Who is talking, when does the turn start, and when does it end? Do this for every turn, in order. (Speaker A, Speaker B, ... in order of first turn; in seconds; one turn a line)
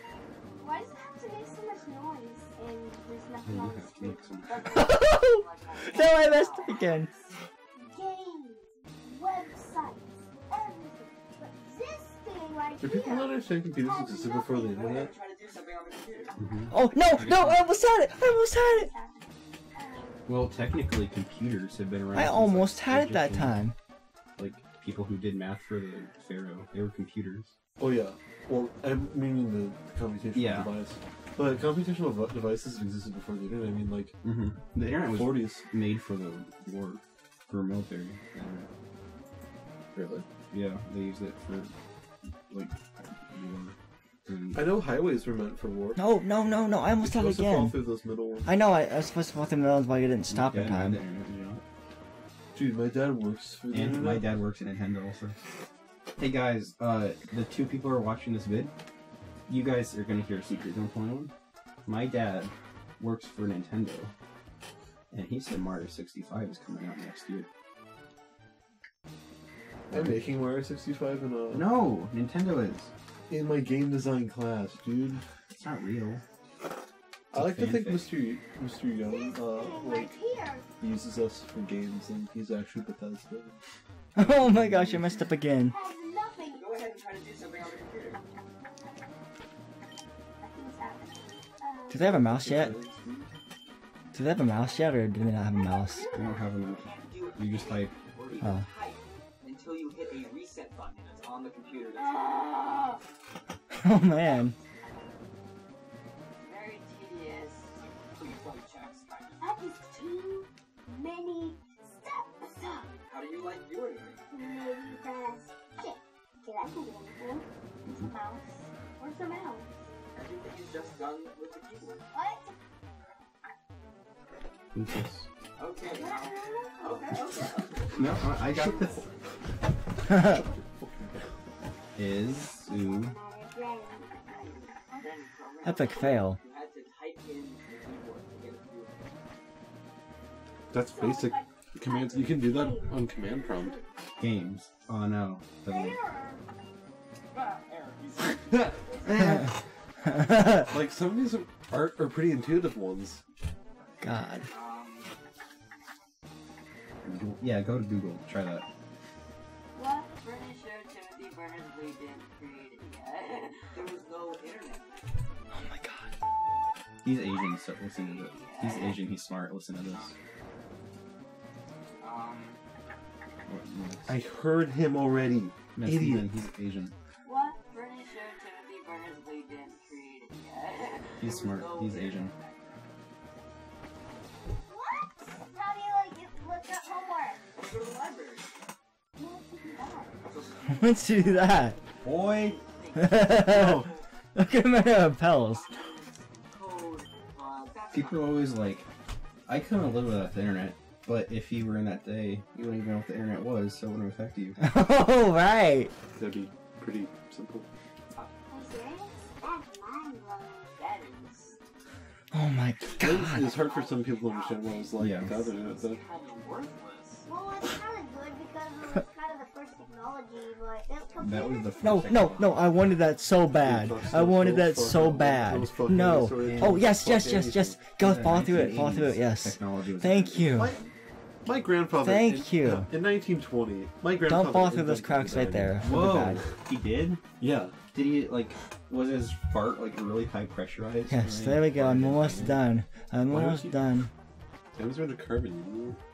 Speaker A: 0.5-5.1
Speaker B: 3.5-4.8
Speaker C: 4.7-7.1
Speaker D: 5.0-7.3
Speaker A: 5.8-6.5
Speaker A: 7.8-14.8
Speaker E: 12.8-15.1
Speaker D: 14.4-16.4
Speaker B: 16.4-17.6
Speaker C: 16.7-18.9
Speaker A: 18.4-20.4
Speaker B: 20.3-23.6
Speaker C: 22.1-23.7
Speaker B: 24.4-27.5
Speaker E: 27.8-34.1
Speaker B: 30.3-30.7
Speaker B: 34.2-38.7
Speaker E: 35.1-35.6
Speaker E: 39.9-40.2
Speaker B: 40.5-41.7
Speaker B: 42.5-44.7
Speaker E: 44.5-46.0
Speaker C: 46.0-47.8
Speaker E: 47.0-48.5
Speaker C: 48.4-51.0
Speaker B: 50.3-51.6
Speaker E: 52.5-54.4
Speaker B: 53.7-55.4
Speaker B: 56.2-58.7
Speaker B: 59.5-61.3
Speaker B: 61.9-64.1
Speaker B: 65.1-67.5
Speaker E: 69.9-71.7
Speaker B: 71.5-72.9
Speaker E: 73.3-75.2
Speaker B: 75.5-76.2
Speaker B: 77.3-78.2
Speaker E: 77.3-80.2
Speaker A: 79.0-80.7
Speaker E: 80.8-83.6
Speaker C: 84.2-85.8
Speaker E: 84.2-85.2
Speaker A: 85.7-86.7
Speaker D: 86.4-88.2
Speaker A: 90.4-92.2
Speaker C: 91.9-92.8
Speaker E: 92.1-93.3
Speaker C: 94.1-96.0
Speaker A: 95.5-96.5
Speaker B: 96.1-97.9
Speaker D: 96.6-102.6
Speaker C: 98.4-98.7
Speaker A: 101.9-103.0
Speaker C: 103.7-104.5
Speaker D: 106.4-109.5
Speaker A: 109.4-112.9
Speaker D: 113.0-114.2
Speaker A: 114.3-119.9
Speaker D: 120.1-122.0
Speaker A: 122.1-122.5
Speaker B: 124.7-125.3
Speaker D: 125.6-129.3
Speaker A: 125.8-127.0
Speaker B: 127.9-129.0
Speaker E: 130.8-131.1
Speaker B: 131.9-133.1
Speaker A: 132.7-135.1
Speaker D: 134.4-139.2
Speaker C: 135.6-136.4
Speaker E: 140.7-143.8
Speaker A: 140.8-143.8
Speaker B: 144.2-146.0
Speaker A: 145.6-146.4
Speaker D: 147.3-149.1
Speaker E: 148.5-149.4
Speaker A: 148.9-149.2
Speaker B: 149.1-149.4
Speaker C: 150.0-150.6
Speaker E: 150.7-153.2
Speaker C: 154.0-154.4
Speaker D: 154.4-155.1
Speaker B: 157.0-158.6
Speaker D: 159.8-165.3
Speaker C: 165.5-166.1
Speaker B: 167.0-170.1
Speaker D: 167.9-168.9
Speaker D: 169.9-170.2
Speaker D: 172.1-172.4
Speaker B: 173.4-174.1
Speaker E: 174.1-176.3
Speaker B: 175.7-176.9
Speaker A: 177.2-177.7
Speaker D: 177.8-182.8
Speaker B: 181.2-182.3
Speaker A: 184.6-187.4
Speaker D: 187.5-188.5
Speaker A: 189.2-190.2
Speaker D: 190.2-194.1
Speaker C: 190.7-191.8
Speaker B: 192.0-192.6
Speaker C: 192.9-195.7
Speaker E: 193.4-193.9
Speaker D: 194.6-198.4
Speaker B: 197.9-198.9
Speaker B: 199.4-204.6
Speaker C: 204.6-205.9
Speaker E: 206.1-207.7
Speaker D: 208.1-208.5
Speaker A: 208.5-210.8
Speaker D: 210.8-211.6
Speaker C: 212.3-213.4
Speaker E: 213.0-216.0
Speaker D: 213.4-217.3
Speaker B: 215.0-215.3
Speaker A: 217.2-221.9
Speaker B: 221.2-222.6
Speaker C: 221.8-230.7
Speaker E: 223.5-227.8
Speaker B: 226.4-226.8
Speaker B: 228.0-230.7
Speaker E: 230.6-230.8
Speaker E: 231.4-236.6
Speaker C: 232.0-232.9
Speaker C: 234.2-236.4
Speaker B: 235.8-237.2
Speaker E: 237.4-237.8
Speaker B: 237.9-242.6
Speaker C: 241.1-244.1
Speaker E: 243.2-243.8
Speaker E: 244.7-246.0